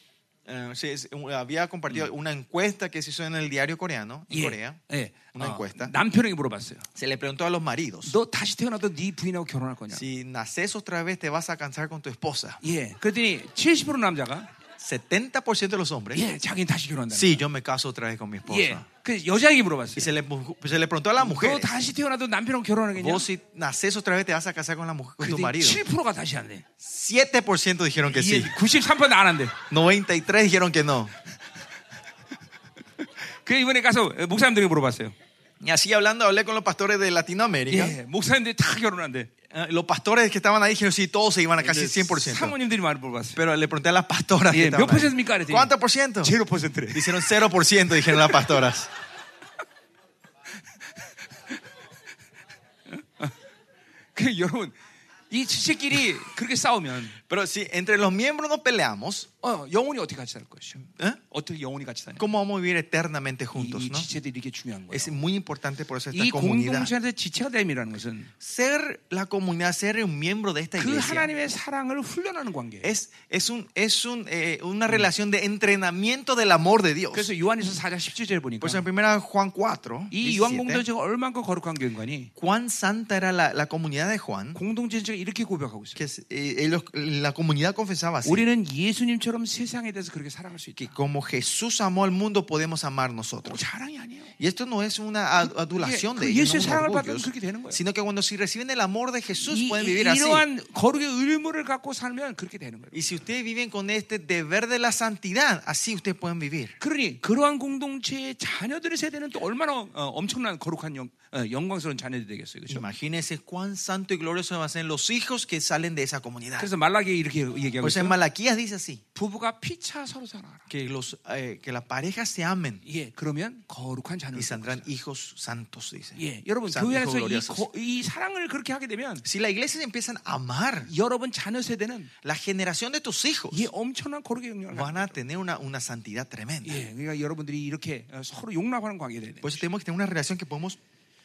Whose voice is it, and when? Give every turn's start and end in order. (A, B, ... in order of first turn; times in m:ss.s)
0:00.4-0:04.8 A
0:04.3-0:06.8 B
0:05.3-0:05.9 A
0:06.9-0:08.1 A
0:08.0-0:10.0 B
0:09.9-0:12.6 A
0:12.6-0:14.5 B
0:14.8-0:16.2 A
0:16.1-0:17.4 B
0:17.1-0:18.8 A
0:18.5-0:20.1 B
0:20.0-0:21.8 A
0:21.2-0:23.3 B
0:22.9-0:25.8 A
0:25.2-0:26.6 B
0:26.8-0:28.5 A
0:28.1-0:29.6 B
0:29.7-0:31.1 A
0:33.4-0:35.1 B
0:35.6-0:38.0 A
0:37.7-0:39.3 B
0:39.5-0:42.5 A
0:41.6-0:43.4 B
0:43.4-0:46.3 A
0:44.5-0:47.3 B
0:46.9-0:48.9 A
0:48.1-0:48.4 B
0:52.9-0:53.3 B
0:54.2-0:54.8 B
0:55.3-0:57.2 B
0:57.2-0:59.3 A
0:59.4-1:02.2 B
1:02.2-1:04.1 A
1:03.5-1:05.2 B
1:04.9-1:06.9 A
1:06.1-1:08.3 B
1:08.4-1:11.3 A
1:10.8-1:12.9 B
1:12.8-1:17.3 A
1:17.1-1:18.8 B
1:18.6-1:20.8 A
1:20.1-1:22.3 B
1:22.4-1:24.6 A
1:24.5-1:26.0 B
1:26.0-1:28.4 A
1:28.2-1:30.9 B
1:30.8-1:33.6 A
1:33.4-1:34.3 B
1:34.4-1:40.4 A
1:35.4-1:37.8 B
1:39.4-1:43.2 B
1:42.9-1:46.7 A
1:46.8-1:52.8 B
1:52.7-1:56.7 A
1:56.6-1:58.2 B
1:57.8-1:59.0 A
1:59.1-2:00.6 B
2:00.7-2:02.8 A
2:02.8-2:04.9 B
2:04.3-2:07.6 A
2:06.2-2:09.2 B
2:09.2-2:10.9 A
2:10.8-2:12.1 B
2:12.2-2:13.7 A
2:13.5-2:15.2 B
2:14.7-2:16.8 A
2:16.6-2:19.6 B
2:19.4-2:20.8 A